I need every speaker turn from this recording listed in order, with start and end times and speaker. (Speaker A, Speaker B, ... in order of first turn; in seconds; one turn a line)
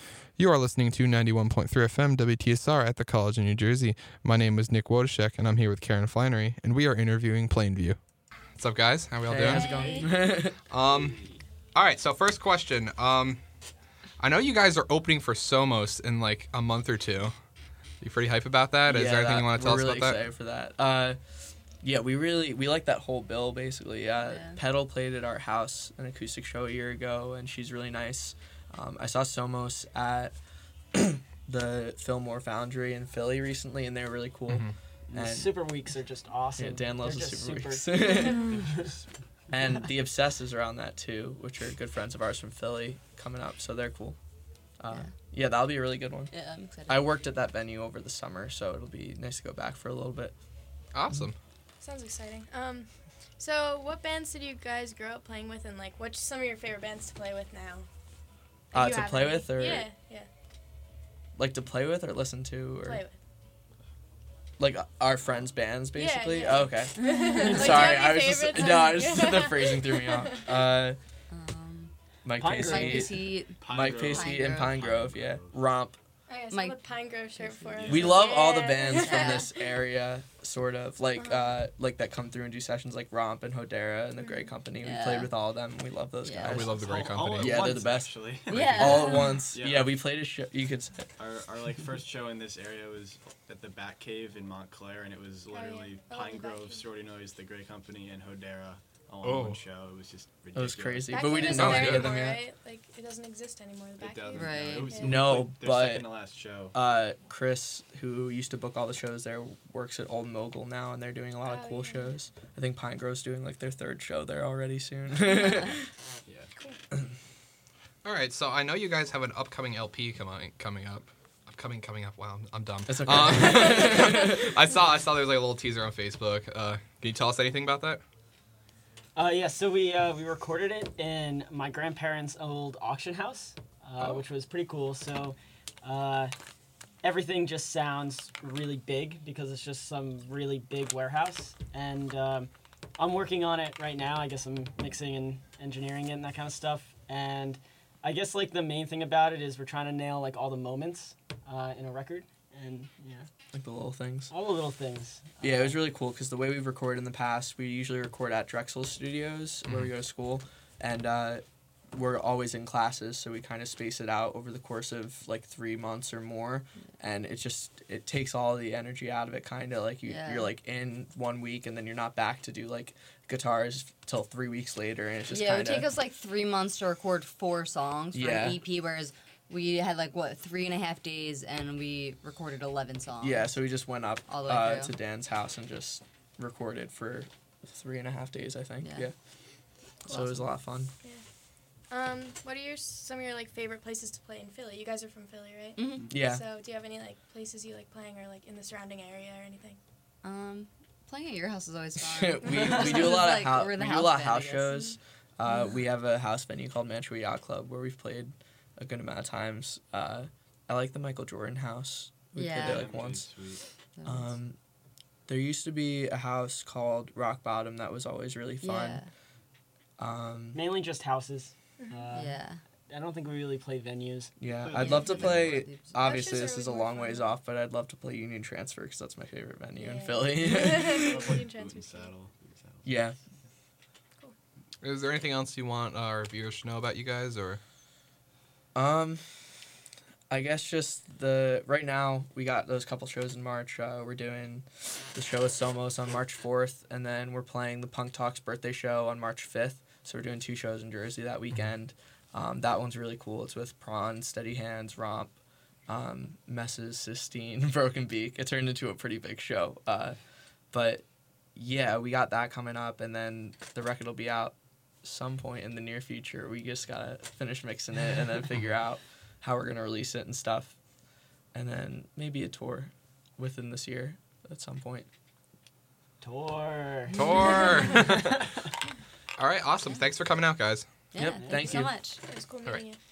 Speaker A: 0.3-8.0
Speaker A: 8.5-9.7
Speaker B: 9.2-10.6
Speaker C: 9.5-10.1
Speaker D: 9.7-10.0
Speaker A: 10.7-11.2
Speaker D: 10.8-11.4
Speaker A: 11.7-13.4
Speaker A: 14.2-17.3
Speaker A: 18.0-20.2
Speaker B: 18.9-21.2
Speaker B: 21.8-30.4
Speaker E: 24.2-24.6
Speaker B: 30.9-35.6
Speaker A: 34.5-34.7
Speaker F: 35.1-38.9
Speaker B: 36.6-38.5
Speaker D: 38.4-39.2
Speaker B: 39.5-44.2
Speaker B: 44.8-46.3
Speaker E: 46.3-47.1
Speaker B: 46.9-50.3
Speaker A: 50.9-51.4
Speaker C: 51.8-57.9
Speaker C: 58.7-60.3
Speaker B: 58.7-59.9
Speaker B: 61.4-63.0
Speaker C: 62.8-63.1
Speaker B: 64.6-71.0
Speaker C: 66.0-70.5
Speaker E: 71.3-71.9
Speaker B: 72.2-73.1
Speaker F: 72.3-73.1
Speaker E: 72.7-74.8
Speaker D: 73.6-75.6
Speaker B: 73.6-76.0
Speaker C: 76.3-79.5
Speaker E: 76.5-78.1
Speaker D: 77.8-78.1
Speaker B: 77.9-86.8
Speaker E: 78.9-79.5
Speaker C: 81.2-81.6
Speaker C: 84.2-84.5
Speaker E: 84.8-85.3
Speaker E: 86.2-86.6
Speaker A: 86.4-87.7
Speaker D: 86.5-90.0
Speaker B: 87.4-91.0
Speaker E: 88.5-89.2
Speaker C: 89.0-89.3
Speaker D: 91.2-102.1
Speaker C: 95.5-96.9
Speaker A: 99.2-99.6
Speaker B: 100.5-102.4
Speaker C: 101.1-105.2
Speaker A: 101.5-102.3
Speaker D: 104.0-106.8
Speaker E: 104.3-105.0
Speaker B: 105.0-106.1
Speaker B: 106.7-115.8
Speaker C: 111.5-112.1
Speaker D: 116.3-116.5
Speaker A: 118.0-128.0
Speaker B: 122.9-124.5
Speaker F: 129.2-136.3
Speaker F: 137.0-153.3
Speaker B: 153.5-154.3
Speaker F: 154.3-155.8
Speaker B: 155.4-175.9
Speaker A: 159.7-159.9
Speaker E: 170.1-170.5
Speaker E: 175.3-183.7
Speaker B: 178.1-178.6
Speaker B: 183.2-189.1
Speaker E: 184.3-184.9
Speaker E: 188.8-189.1
Speaker E: 190.1-190.5
Speaker B: 190.1-190.9
Speaker C: 191.9-199.8
Speaker E: 195.8-196.1
Speaker D: 195.9-196.2
Speaker B: 196.1-196.4
Speaker E: 200.2-204.9
Speaker B: 202.0-213.3
Speaker C: 202.5-202.8
Speaker E: 205.5-205.8
Speaker E: 212.3-212.9
Speaker D: 212.5-213.6
Speaker E: 214.0-214.3
Speaker B: 214.1-214.6
Speaker B: 215.3-219.0
Speaker E: 218.6-219.1
Speaker B: 220.0-220.6
Speaker F: 220.5-224.3
Speaker C: 221.8-222.2
Speaker E: 222.1-222.6
Speaker B: 224.4-231.3
Speaker D: 224.5-225.7
Speaker E: 224.7-226.1
Speaker C: 226.0-227.4
Speaker C: 229.8-232.2
Speaker D: 230.8-232.9
Speaker B: 232.8-233.2
Speaker A: 234.8-237.6
Speaker B: 238.8-239.2
Speaker B: 240.3-255.4
Speaker B: 255.9-260.2
Speaker B: 260.7-261.0
Speaker B: 261.6-270.8
Speaker B: 271.5-275.1
Speaker F: 276.2-278.3
Speaker A: 277.1-278.4
Speaker A: 279.4-280.9
Speaker E: 281.1-282.2
Speaker B: 281.2-281.9
Speaker F: 281.4-281.7
Speaker C: 282.2-283.0